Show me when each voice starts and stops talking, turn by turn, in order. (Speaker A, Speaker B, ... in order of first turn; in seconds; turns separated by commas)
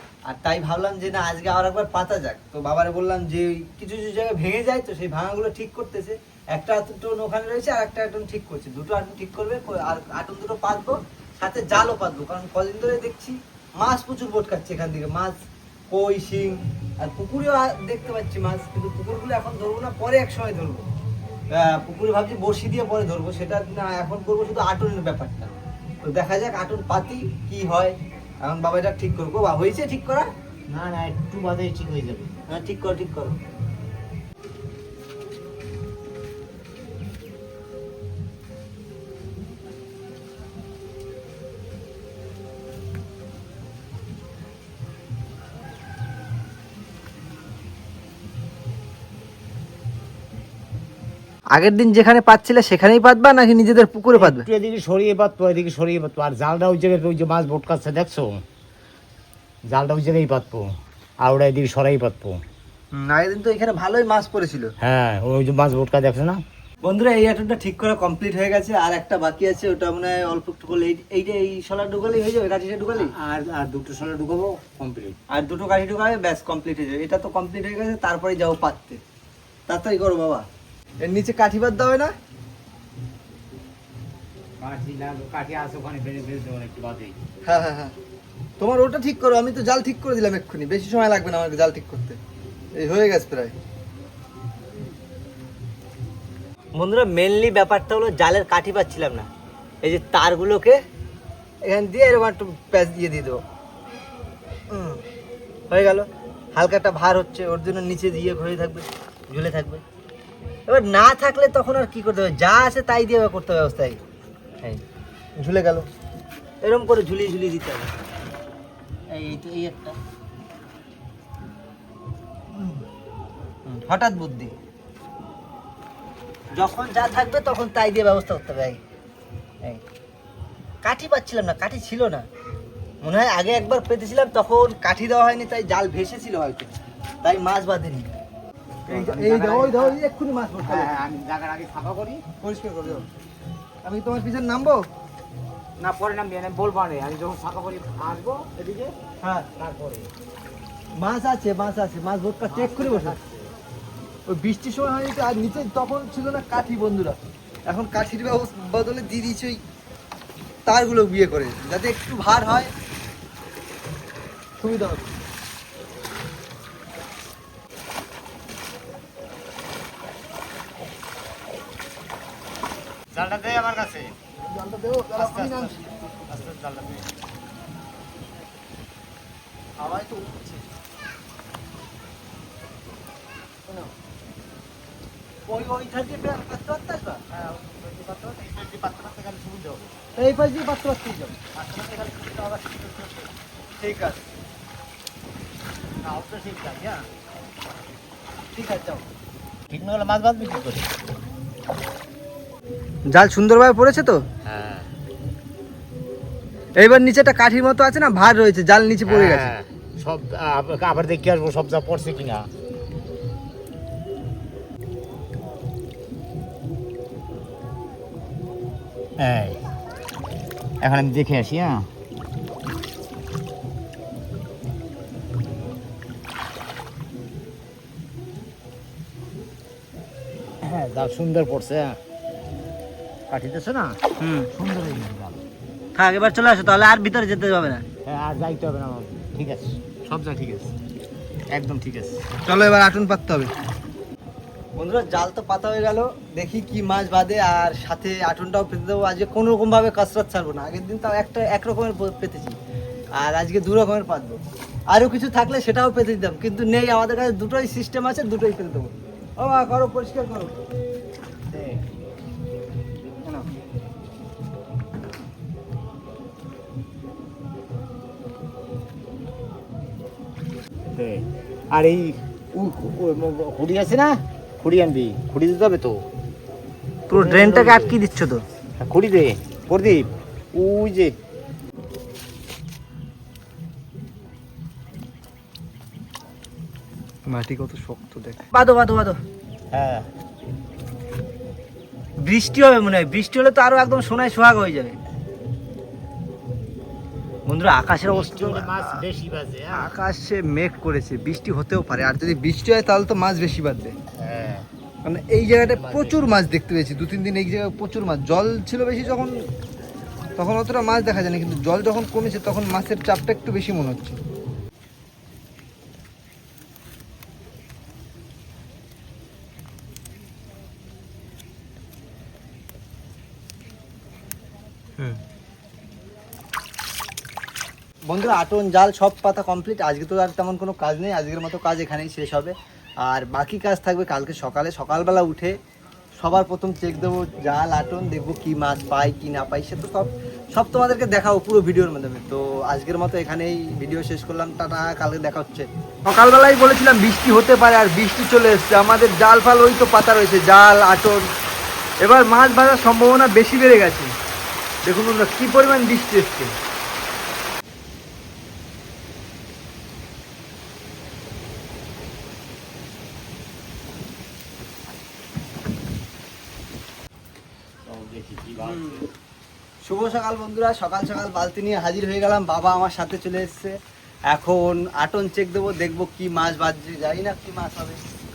Speaker A: 0.3-15.4, Speaker A: 15.9-20.9, Speaker A: 21.5-30.3, Speaker B: 30.7-32.3, Speaker A: 32.5-33.4, Speaker A: 51.5-54.5, Speaker B: 54.1-58.4, Speaker B: 59.7-60.7, Speaker B: 61.2-62.4, Speaker A: 62.9-64.7, Speaker B: 64.8-66.4, Speaker A: 66.8-73.1, Speaker B: 73.0-75.2, Speaker A: 75.3-79.0, Speaker A: 79.7-80.5, Speaker A: 81.0-82.1, Speaker B: 84.6-87.2, Speaker A: 87.5-88.0, Speaker A: 88.6-92.2, Speaker A: 92.7-93.5, Speaker A: 96.8-99.3, Speaker A: 99.8-100.8, Speaker A: 101.6-103.4, Speaker A: 104.7-105.0, Speaker A: 105.7-109.8, Speaker A: 110.7-114.0, Speaker A: 115.4-115.9, Speaker A: 116.6-117.9, Speaker A: 119.2-119.9, Speaker A: 123.7-124.5, Speaker A: 126.6-128.8, Speaker A: 130.8-132.3, Speaker A: 133.0-136.7, Speaker A: 137.2-138.1, Speaker B: 138.9-140.0, Speaker A: 138.9-141.0, Speaker B: 140.6-142.2, Speaker A: 142.4-143.1, Speaker A: 143.8-144.8, Speaker B: 145.8-148.9, Speaker A: 149.2-149.5, Speaker B: 149.6-150.1, Speaker A: 151.0-153.2, Speaker B: 152.4-153.5, Speaker A: 154.3-159.6, Speaker A: 160.7-162.7, Speaker A: 164.6-165.1, Speaker B: 173.1-174.2, Speaker A: 174.4-176.1, Speaker B: 175.2-177.1, Speaker A: 179.8-180.7, Speaker A: 185.5-187.2, Speaker B: 187.3-189.9, Speaker A: 190.2-191.4, Speaker B: 191.5-193.3, Speaker A: 193.8-194.2, Speaker B: 196.0-197.1, Speaker A: 198.6-199.1, Speaker B: 199.7-200.9, Speaker A: 203.1-204.2, Speaker B: 204.5-204.9, Speaker A: 206.8-209.5, Speaker B: 209.1-212.5, Speaker B: 219.2-219.6, Speaker B: 220.8-221.9, Speaker B: 230.6-232.0, Speaker B: 233.3-234.0, Speaker A: 234.2-234.5, Speaker B: 234.5-235.4, Speaker A: 235.9-237.8, Speaker B: 238.1-240.7, Speaker B: 241.5-242.2, Speaker A: 242.4-243.5, Speaker A: 244.8-252.6, Speaker A: 253.2-260.6, Speaker B: 261.5-261.9, Speaker B: 270.9-276.1, Speaker A: 277.1-278.4, Speaker B: 277.1-278.0, Speaker B: 278.8-281.2, Speaker A: 287.3-289.2, Speaker B: 289.7-290.1, Speaker A: 292.2-295.0, Speaker A: 297.5-299.1, Speaker B: 298.0-299.9, Speaker A: 299.7-304.0, Speaker B: 304.2-304.7, Speaker A: 305.1-309.3, Speaker B: 305.6-306.3, Speaker A: 310.4-314.2, Speaker A: 328.1-332.5, Speaker A: 333.1-335.6, Speaker A: 336.2-351.3, Speaker A: 352.0-354.1, Speaker A: 354.9-356.5, Speaker B: 367.9-369.1, Speaker A: 368.6-369.1, Speaker A: 369.8-373.8, Speaker A: 374.3-378.0